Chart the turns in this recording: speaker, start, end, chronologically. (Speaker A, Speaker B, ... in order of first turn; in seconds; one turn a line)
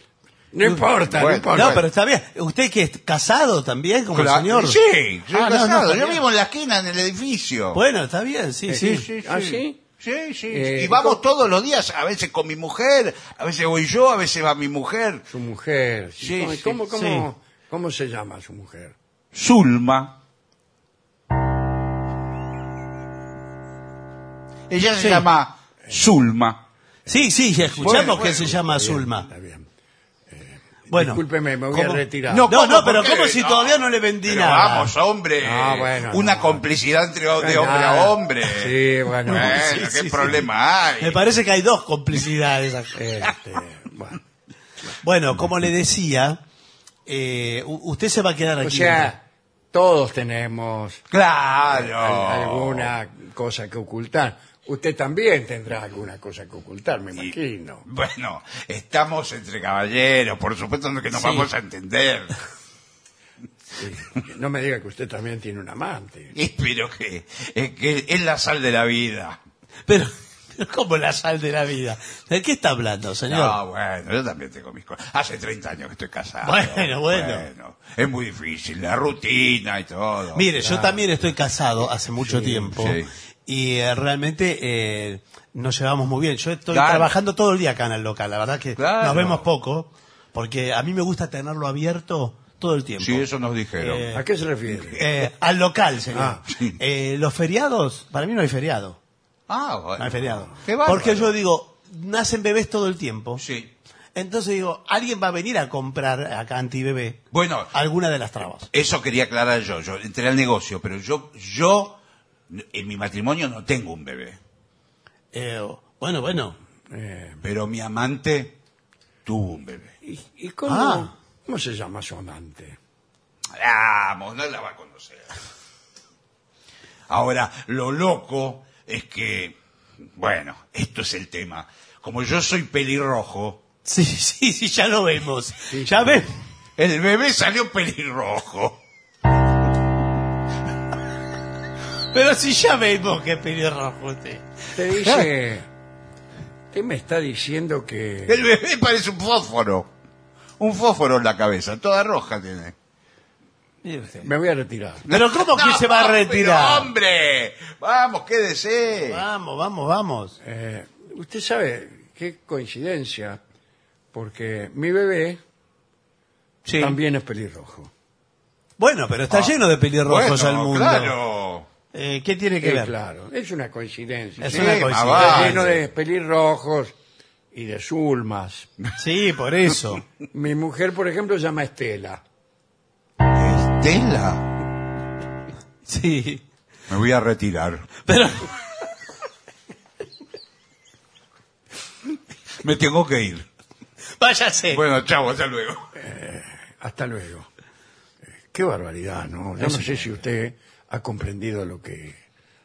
Speaker A: 0.5-1.8
Speaker B: 1.0-1.9
Speaker C: 1.5-4.8
Speaker B: 4.1-7.8
Speaker C: 5.3-6.2
Speaker C: 7.7-9.1
Speaker A: 8.7-9.8
Speaker B: 8.8-15.2
Speaker A: 10.5-11.2
Speaker A: 15.3-18.9
Speaker B: 16.2-16.8
Speaker C: 16.9-17.3
Speaker B: 19.3-20.2
Speaker B: 24.7-26.6
Speaker C: 25.0-25.2
Speaker C: 27.1-29.3
Speaker A: 27.1-29.7
Speaker B: 27.8-28.5
Speaker A: 30.3-32.5
Speaker C: 30.9-31.2
Speaker C: 31.7-34.9
Speaker B: 32.3-41.2
Speaker A: 35.4-36.6
Speaker A: 37.4-39.6
Speaker C: 39.3-40.5
Speaker C: 41.0-43.0
Speaker A: 42.9-44.2
Speaker C: 45.0-46.4
Speaker C: 47.0-49.1
Speaker A: 48.6-51.0
Speaker B: 51.1-52.9
Speaker A: 51.7-57.8
Speaker B: 57.1-62.4
Speaker C: 61.1-61.5
Speaker A: 63.7-66.3
Speaker B: 66.3-69.4
Speaker C: 69.9-73.6
Speaker B: 73.3-80.5
Speaker C: 76.4-77.5
Speaker C: 80.3-94.2
Speaker A: 80.6-81.1
Speaker A: 82.2-82.7
Speaker B: 82.7-83.1
Speaker B: 86.7-87.2
Speaker B: 88.8-89.4
Speaker B: 93.0-94.2
Speaker A: 94.1-95.0
Speaker B: 94.8-95.1
Speaker C: 94.9-99.0
Speaker A: 96.1-96.4
Speaker B: 96.5-96.8
Speaker B: 99.5-101.3
Speaker C: 100.0-103.4
Speaker B: 103.4-103.7
Speaker C: 104.1-108.7
Speaker B: 107.3-107.7
Speaker B: 108.7-114.4
Speaker C: 115.3-116.6
Speaker A: 116.9-117.4
Speaker B: 117.4-118.6
Speaker B: 119.2-119.9
Speaker A: 120.0-122.8
Speaker C: 120.7-121.1
Speaker B: 123.5-125.3
Speaker B: 127.1-129.6
Speaker B: 130.2-133.6
Speaker C: 133.8-136.3
Speaker A: 135.7-136.2
Speaker B: 136.8-138.8
Speaker C: 142.1-144.7
Speaker A: 144.7-145.7
Speaker B: 145.0-145.3
Speaker A: 146.7-148.4
Speaker B: 148.2-149.9
Speaker B: 150.6-152.7
Speaker C: 153.8-154.3
Speaker A: 154.2-155.1
Speaker B: 155.1-159.2
Speaker C: 155.1-156.9
Speaker C: 159.0-160.4
Speaker A: 160.4-163.4
Speaker A: 164.1-165.4
Speaker B: 166.6-167.0
Speaker A: 166.7-167.9
Speaker C: 168.8-171.2
Speaker B: 169.3-171.7
Speaker C: 171.9-172.9
Speaker A: 172.6-176.9
Speaker B: 174.4-175.8
Speaker C: 174.4-175.7
Speaker A: 177.5-178.7
Speaker C: 179.0-180.0
Speaker A: 180.3-182.2
Speaker B: 183.3-184.5
Speaker C: 185.8-186.4
Speaker B: 186.9-187.9
Speaker C: 188.0-188.5
Speaker B: 192.6-193.4
Speaker C: 194.2-194.8
Speaker B: 194.7-195.8
Speaker A: 195.9-197.5
Speaker A: 198.5-202.2
Speaker C: 199.6-200.1